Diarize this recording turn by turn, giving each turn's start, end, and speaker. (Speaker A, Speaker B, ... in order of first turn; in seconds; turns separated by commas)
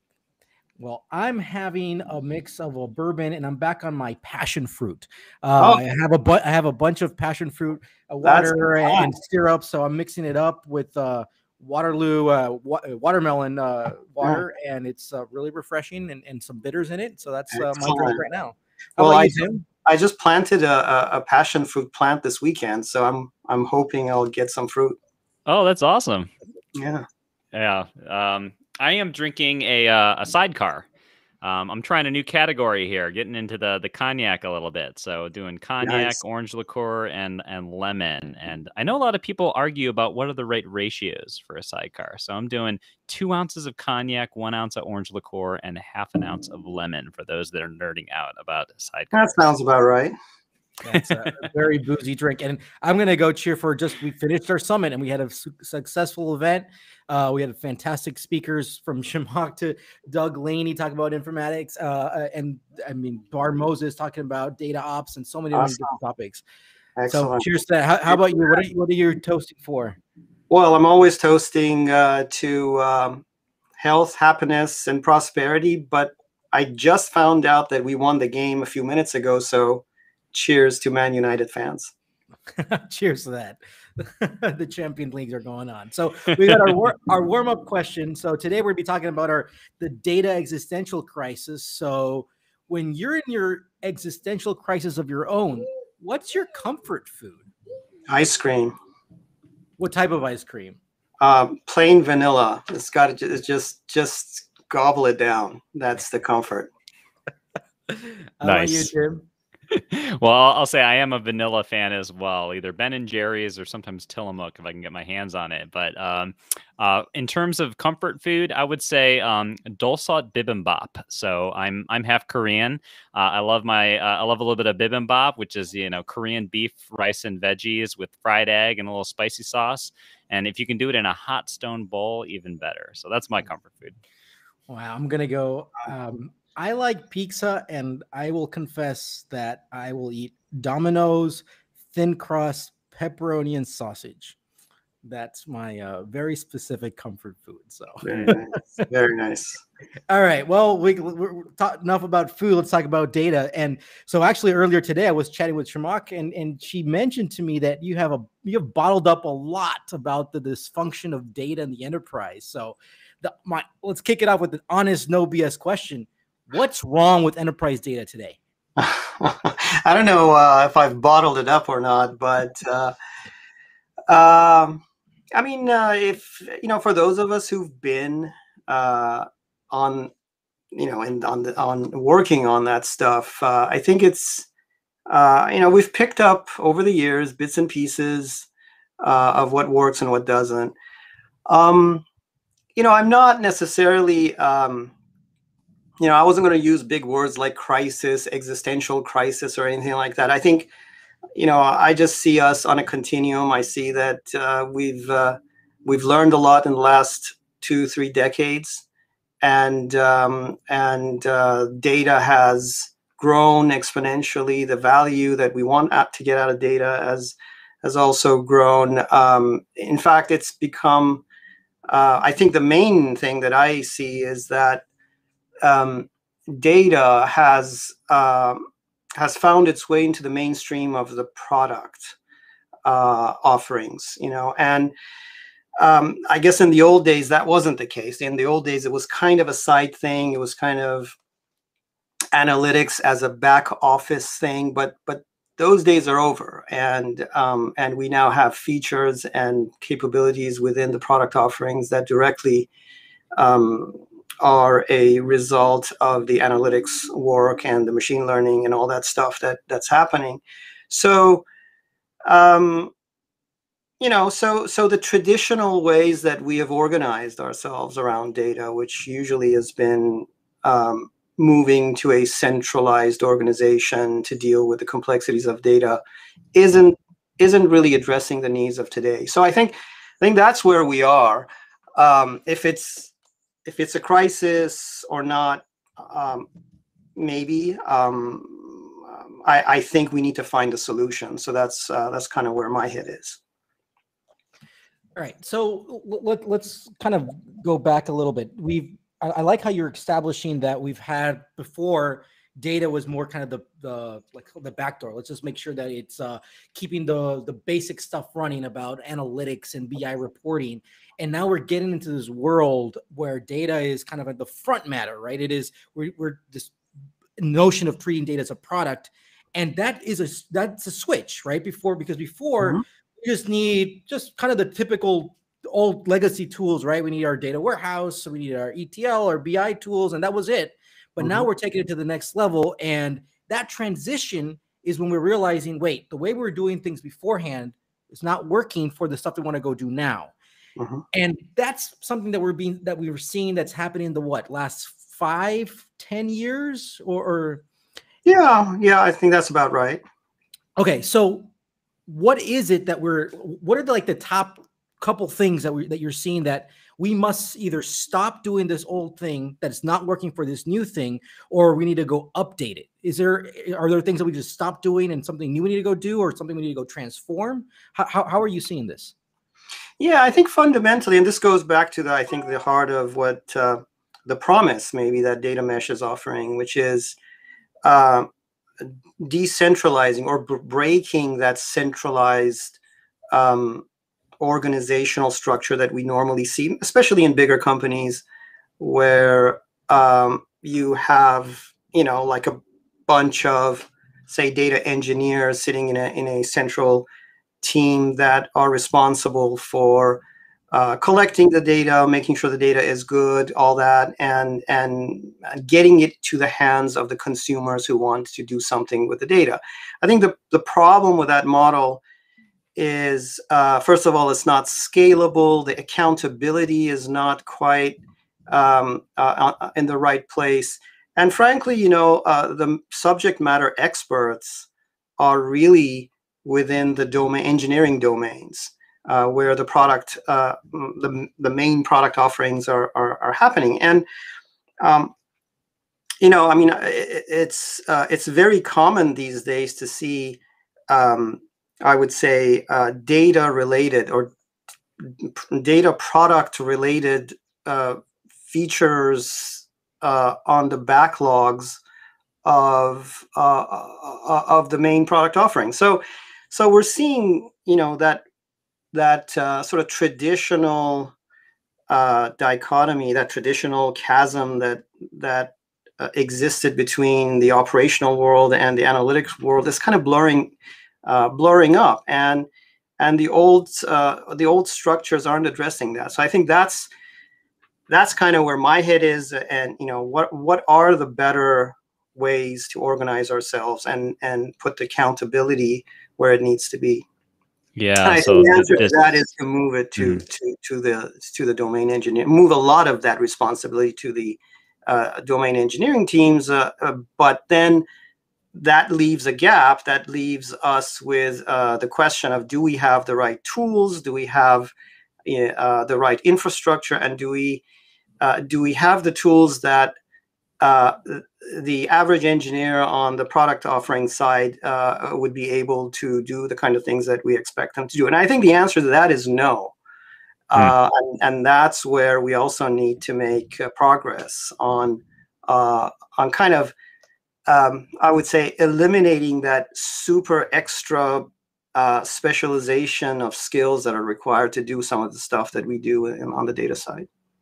Speaker A: 0.8-19.6, Speaker B: 8.2-9.1, Speaker B: 17.5-18.2, Speaker B: 19.0-25.0, Speaker C: 25.5-26.3, Speaker B: 26.8-27.1, Speaker C: 27.5-30.9, Speaker C: 31.4-49.1, Speaker B: 35.8-36.2, Speaker B: 49.1-50.1, Speaker A: 50.8-66.4, Speaker C: 50.9-51.5, Speaker B: 65.5-65.9, Speaker B: 67.0-67.5, Speaker A: 67.1-70.0, Speaker B: 70.5-73.2, Speaker B: 73.8-81.9, Speaker A: 82.5-97.5, Speaker B: 98.1-98.7, Speaker A: 99.8-100.8, Speaker B: 101.2-106.7, Speaker A: 107.9-109.2, Speaker C: 108.4-108.9, Speaker C: 109.7-134.0, Speaker A: 134.7-144.4, Speaker A: 145.0-148.4, Speaker B: 148.0-149.6, Speaker A: 150.1-168.4, Speaker B: 168.8-172.9, Speaker B: 174.1-174.8, Speaker B: 175.3-180.1, Speaker B: 180.7-184.5, Speaker B: 185.1-188.5, Speaker B: 189.0-190.8, Speaker B: 191.5-192.0, Speaker B: 192.8-194.9, Speaker B: 196.0-200.7, Speaker B: 201.3-208.8, Speaker B: 209.4-221.2, Speaker B: 221.9-224.8, Speaker B: 225.6-228.6, Speaker B: 229.2-232.2, Speaker B: 232.8-234.9, Speaker B: 235.8-241.2, Speaker B: 242.3-252.7, Speaker B: 253.3-261.5, Speaker B: 262.2-262.9, Speaker B: 264.0-276.0, Speaker B: 276.5-283.1, Speaker B: 283.7-286.5, Speaker B: 287.2-293.4, Speaker A: 295.2-316.7, Speaker A: 317.4-340.3, Speaker B: 331.2-331.5, Speaker B: 340.8-341.0, Speaker A: 341.1-347.6, Speaker B: 348.2-350.0, Speaker A: 350.8-351.5, Speaker A: 352.1-369.1, Speaker B: 370.0-377.1, Speaker B: 377.9-378.3, Speaker B: 378.8-382.8, Speaker B: 383.3-383.9, Speaker B: 384.4-388.2, Speaker B: 388.8-392.6, Speaker B: 393.1-397.1, Speaker B: 397.6-412.0, Speaker B: 412.8-424.7, Speaker B: 425.2-434.1, Speaker B: 434.8-435.1, Speaker B: 436.2-444.3, Speaker B: 445.1-451.8, Speaker B: 452.4-458.2, Speaker B: 458.9-461.1, Speaker B: 461.9-470.5, Speaker B: 471.0-472.5, Speaker B: 473.0-476.9, Speaker B: 477.9-487.0, Speaker C: 487.8-489.1, Speaker B: 488.0-497.9, Speaker C: 490.0-490.2, Speaker B: 498.5-504.7, Speaker B: 505.2-507.6, Speaker B: 508.2-509.9, Speaker B: 510.6-519.8, Speaker B: 520.5-526.7, Speaker B: 527.5-537.1